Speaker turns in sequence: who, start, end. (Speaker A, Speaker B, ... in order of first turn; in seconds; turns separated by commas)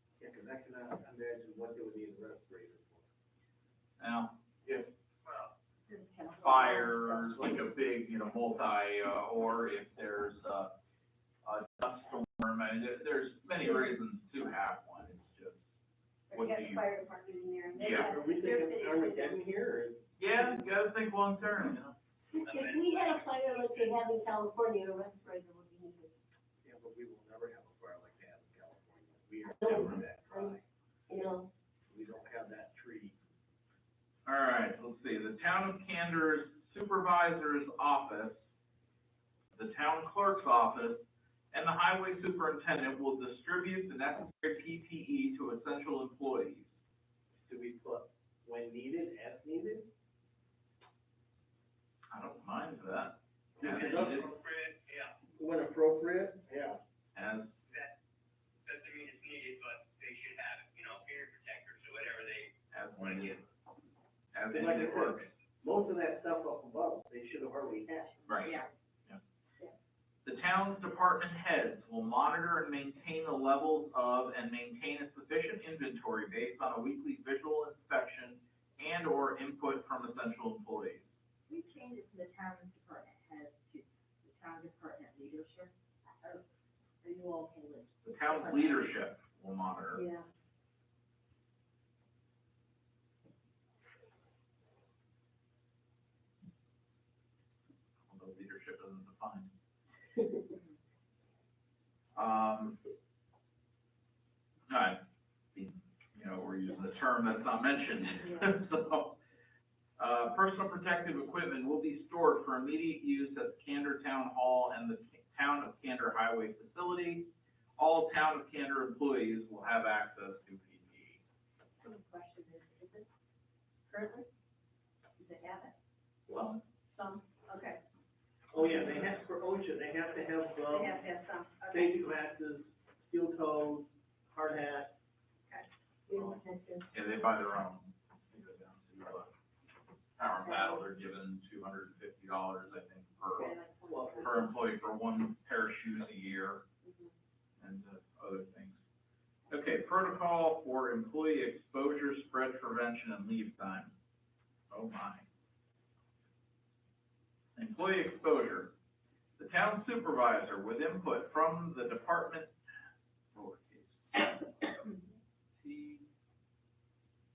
Speaker A: 0.2-3.1, Speaker B: 4.0-4.9, Speaker C: 5.9-7.6, Speaker B: 6.4-10.7, Speaker B: 11.4-15.6, Speaker C: 16.3-19.4, Speaker B: 16.3-16.8, Speaker B: 17.8-18.1, Speaker A: 17.9-20.5, Speaker B: 20.2-21.9, Speaker D: 22.4-26.2, Speaker E: 22.4-24.0, Speaker A: 26.6-30.6, Speaker D: 29.6-30.5, Speaker B: 29.7-29.9, Speaker D: 31.1-31.5, Speaker A: 31.9-33.2, Speaker B: 34.2-38.4, Speaker B: 39.5-46.7, Speaker A: 47.4-49.9, Speaker B: 52.1-54.3, Speaker A: 53.6-54.3, Speaker E: 53.9-55.2, Speaker A: 55.3-56.8, Speaker B: 57.1-57.5, Speaker E: 57.7-58.0, Speaker E: 58.6-63.4, Speaker B: 62.7-63.4, Speaker B: 64.3-65.3, Speaker A: 64.5-68.3, Speaker B: 68.3-69.2, Speaker C: 68.4-68.7, Speaker B: 70.2-81.0, Speaker C: 81.5-86.4, Speaker C: 87.0-89.0, Speaker B: 88.0-90.0, Speaker C: 89.9-90.3, Speaker B: 98.1-99.5, Speaker B: 102.2-102.8, Speaker B: 104.7-105.0, Speaker B: 105.5-109.2, Speaker B: 110.0-121.2, Speaker C: 121.8-123.1, Speaker C: 123.9-124.3, Speaker C: 125.2-125.7, Speaker B: 126.3-126.6, Speaker C: 126.9-127.8, Speaker A: 128.5-131.0, Speaker B: 128.8-129.0, Speaker C: 130.7-132.0, Speaker A: 131.7-134.9, Speaker C: 135.5-136.8, Speaker B: 136.9-139.3, Speaker B: 140.2-143.5, Speaker C: 140.4-140.8, Speaker C: 143.3-144.5, Speaker A: 143.9-144.4, Speaker B: 144.2-146.6, Speaker C: 146.8-147.1, Speaker B: 147.6-148.8, Speaker B: 149.5-153.9, Speaker B: 154.7-155.2, Speaker B: 157.6-158.7, Speaker B: 159.4-162.5, Speaker B: 163.3-164.7, Speaker B: 165.6-166.0